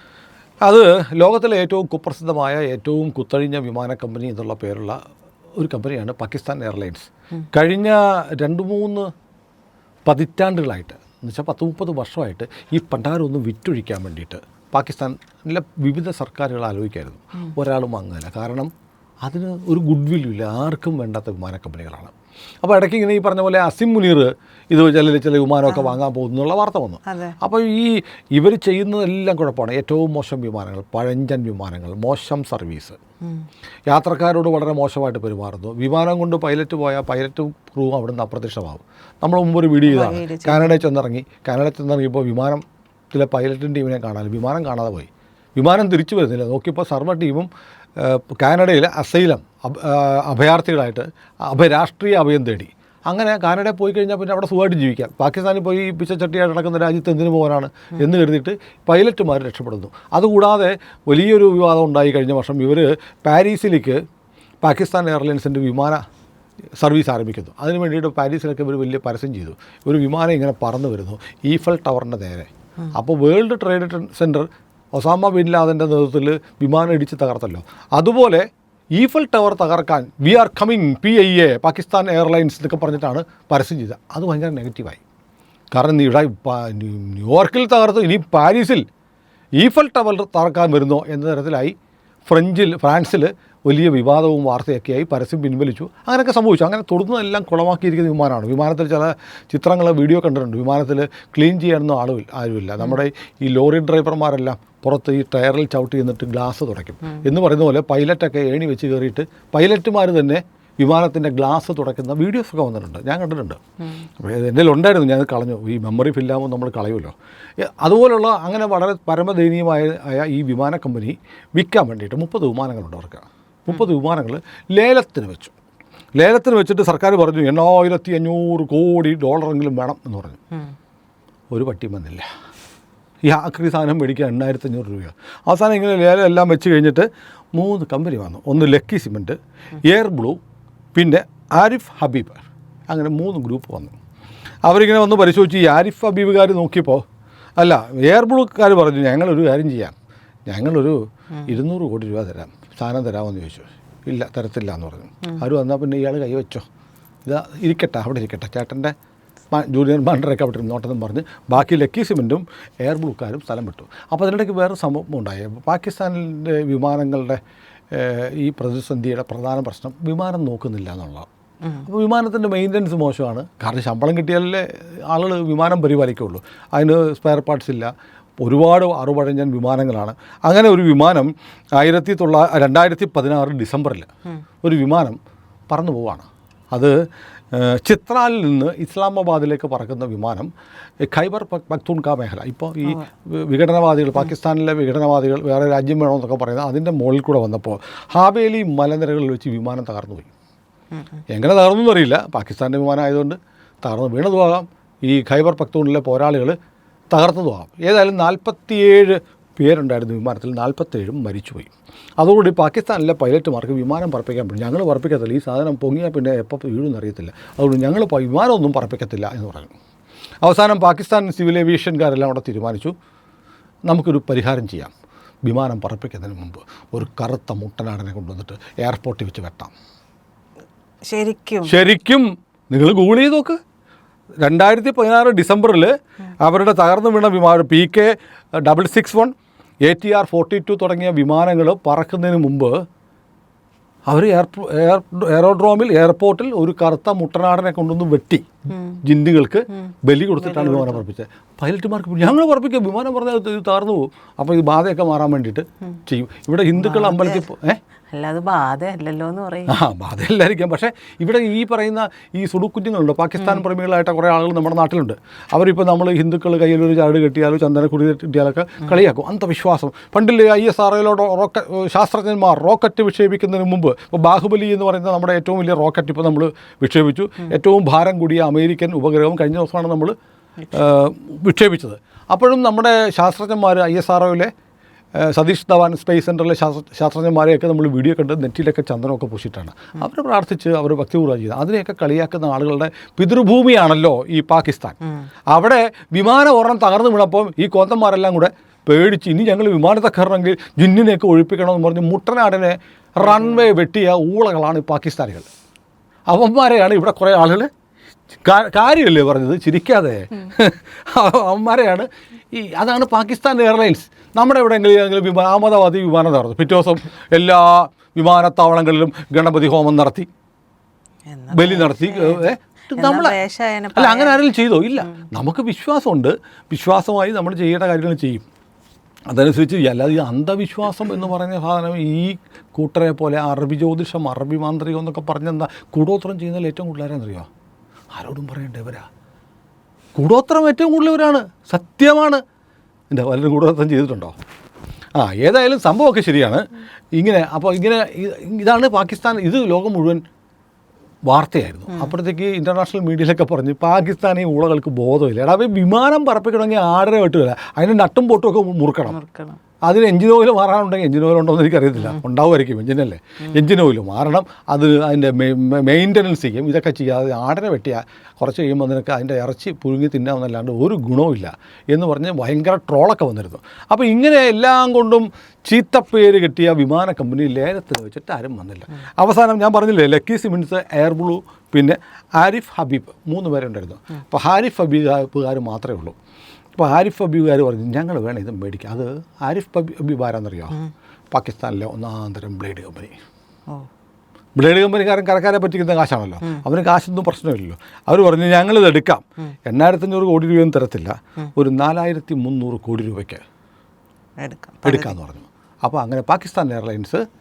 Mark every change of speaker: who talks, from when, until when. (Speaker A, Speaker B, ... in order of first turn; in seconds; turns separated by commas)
Speaker A: 0.6-5.0, Speaker A: 5.6-9.1, Speaker A: 10.1-18.7, Speaker A: 19.2-22.1, Speaker A: 22.6-33.0, Speaker B: 25.7-25.9, Speaker B: 27.1-27.4, Speaker A: 33.9-64.0, Speaker B: 39.8-40.8, Speaker A: 64.6-66.0, Speaker A: 66.8-85.0, Speaker A: 85.7-88.8, Speaker A: 89.6-91.7, Speaker A: 92.3-113.6, Speaker A: 114.2-125.5, Speaker A: 126.2-130.4, Speaker A: 131.5-132.3, Speaker A: 133.2-140.4, Speaker A: 140.9-143.9, Speaker A: 144.6-147.0, Speaker A: 147.6-149.9, Speaker A: 150.5-156.6, Speaker A: 157.2-158.9, Speaker A: 159.5-167.4, Speaker A: 167.9-171.3, Speaker A: 171.8-184.1, Speaker A: 184.6-185.2, Speaker A: 185.7-186.9, Speaker A: 187.5-190.5, Speaker A: 191.0-200.3, Speaker A: 201.3-206.6, Speaker A: 207.1-219.7, Speaker A: 220.4-222.9, Speaker A: 223.9-224.9, Speaker A: 225.4-229.7, Speaker B: 231.1-231.7, Speaker A: 231.6-233.6, Speaker A: 234.4-239.3, Speaker A: 239.8-242.8, Speaker A: 244.1-248.4, Speaker B: 248.7-249.0, Speaker A: 249.0-257.8, Speaker B: 249.7-251.0, Speaker B: 256.8-257.4, Speaker B: 258.1-259.8, Speaker A: 259.7-280.1, Speaker A: 280.7-284.5, Speaker A: 285.2-295.0, Speaker A: 295.5-305.5, Speaker A: 306.3-307.7, Speaker A: 308.4-320.3, Speaker B: 321.3-324.4, Speaker A: 321.5-323.4, Speaker A: 323.9-328.4, Speaker A: 329.3-337.5, Speaker A: 338.1-339.1, Speaker A: 340.2-342.4, Speaker A: 343.1-344.3, Speaker A: 345.2-346.6, Speaker A: 347.2-350.2, Speaker A: 351.3-359.2, Speaker B: 359.1-359.6, Speaker A: 359.8-386.1, Speaker A: 386.8-390.8, Speaker A: 391.3-393.1, Speaker A: 394.6-403.4, Speaker B: 404.4-405.1, Speaker A: 404.8-407.2